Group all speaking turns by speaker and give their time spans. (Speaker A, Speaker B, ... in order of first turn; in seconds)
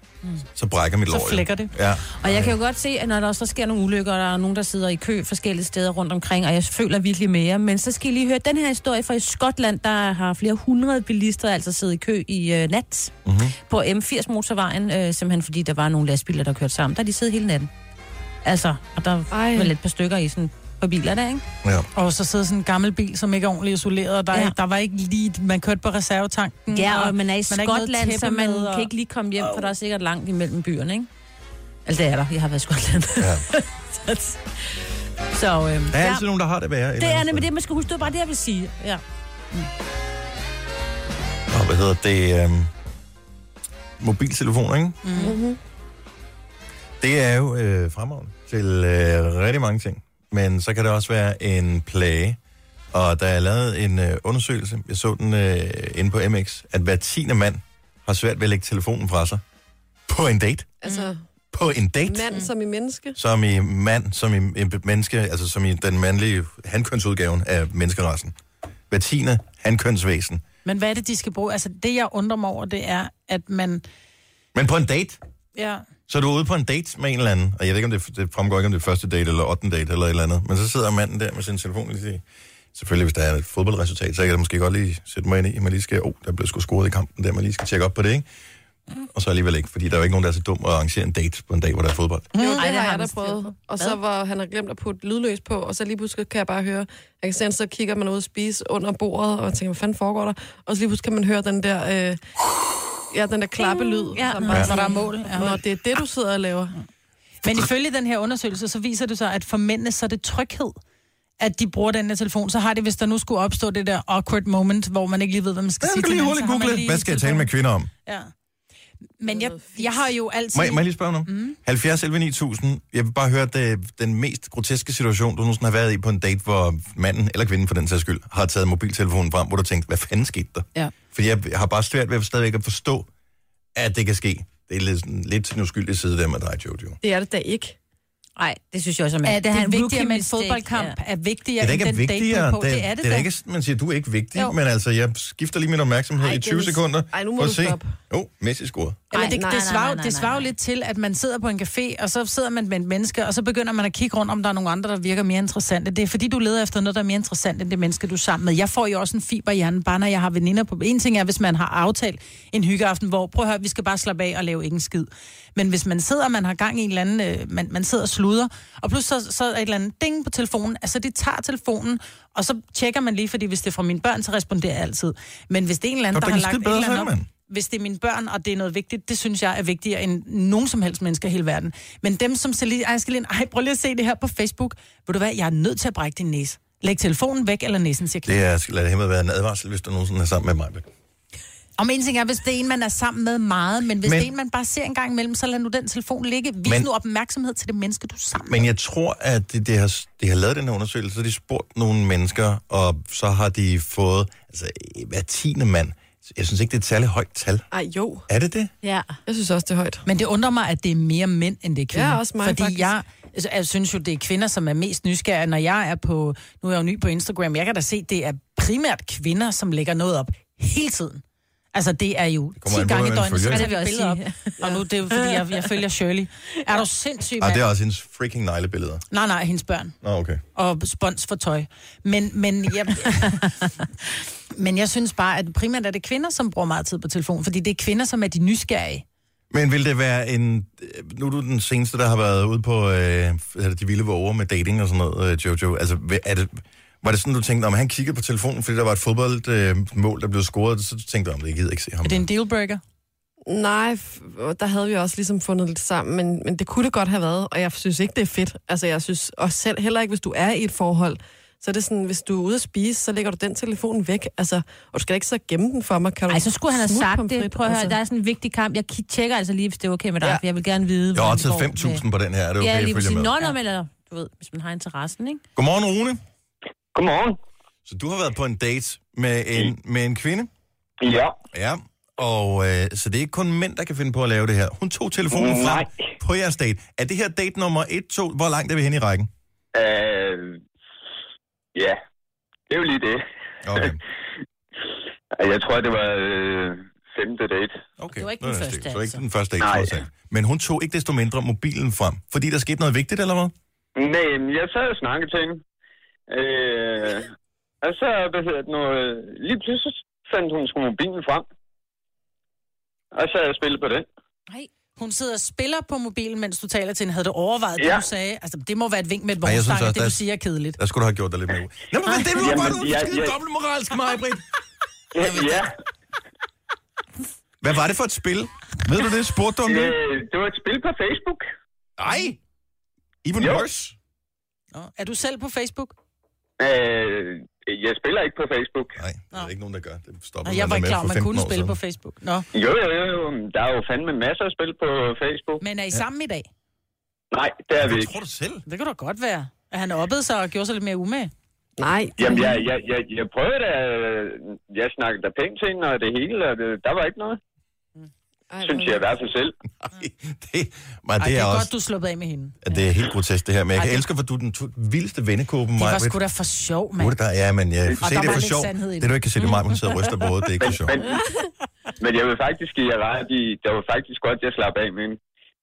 Speaker A: 0.6-2.6, 13.2-13.6, 33.2-33.5, 35.9-37.5, 41.5-42.7, 44.0-45.0, 47.0-52.4, 52.9-59.4, 60.1-60.8, 61.5-62.4, 63.1-68.3, 68.9-70.4, 74.5-75.2, 76.1-82.2, 82.7-88.3, 89.1-92.4, 115.8-117.9, 120.5-133.1, 133.7-137.0, 141.6-149.1, 176.1-177.3, 188.2-190.9, 194.0-194.3, 198.4-207.7, 208.3-208.7, 222.6-223.7, 227.4-229.1, 230.0-230.4, 239.5-252.2, 271.1-273.4, 275.6-276.2, 277.9-280.5, 281.5-289.3, 293.6-294.0, 298.0-303.5, 319.4-320.2, 320.8-324.4, 325.2-325.6, 327.6-329.9, 332.0-332.4, 333.2-333.9, 338.9-341.8, 347.8-348.6, 359.8-361.7, 362.6-366.2, 367.0-371.0
Speaker B: 1.1-1.7, 21.9-28.9, 45.0-45.3, 70.6-73.8, 75.6-75.9, 92.3-92.6, 104.1-105.6, 107.4-110.8, 111.4-117.5, 118.1-118.3, 119.2-121.6, 139.2-143.3, 149.1-188.4, 191.8-198.7, 210.1-221.2, 221.7-227.6, 229.1-229.9, 230.6-233.7, 234.6-239.0, 252.0-252.8, 315.0-320.8, 334.7-335.9, 340.4-342.5, 345.6-346.5, 348.6-351.3, 361.2-362.6, 363.8-364.0, 365.8-367.2, 367.9-369.1
Speaker C: 2.2-13.1, 13.7-17.7, 18.4-21.4, 26.7-31.1, 31.9-34.4, 35.3-36.2, 37.0-39.0, 92.6-94.0, 103.6-105.5, 138.4-140.9, 149.1-150.5, 208.8-209.2, 223.4-225.6, 266.3-272.0, 272.6-275.4, 298.1-299.2
Speaker D: 19.3-19.7, 45.2-45.6, 60.8-61.2, 62.0-63.2, 92.4-102.2, 103.1-106.7, 119.3-120.1, 137.0-137.8, 146.2-147.9, 149.2-149.7, 207.7-208.2, 209.3-210.0, 211.9-212.9, 253.5-267.9, 351.8-352.6, 358.5-359.1
Speaker E: 276.9-277.4, 281.0-281.4, 285.3-286.1, 289.7-290.6, 292.7-293.2, 295.4-297.8, 299.6-300.0, 303.9-305.6, 306.3-307.3, 307.8-311.4, 313.1-314.1, 317.8-318.0, 322.3-323.4, 325.1-325.7, 329.6-331.4, 333.4-333.6, 336.6-339.0, 342.5-345.6, 347.3-348.1, 352.2-357.4, 358.6-359.6, 367.9-368.2, 370.6-371.2, 372.0-375.2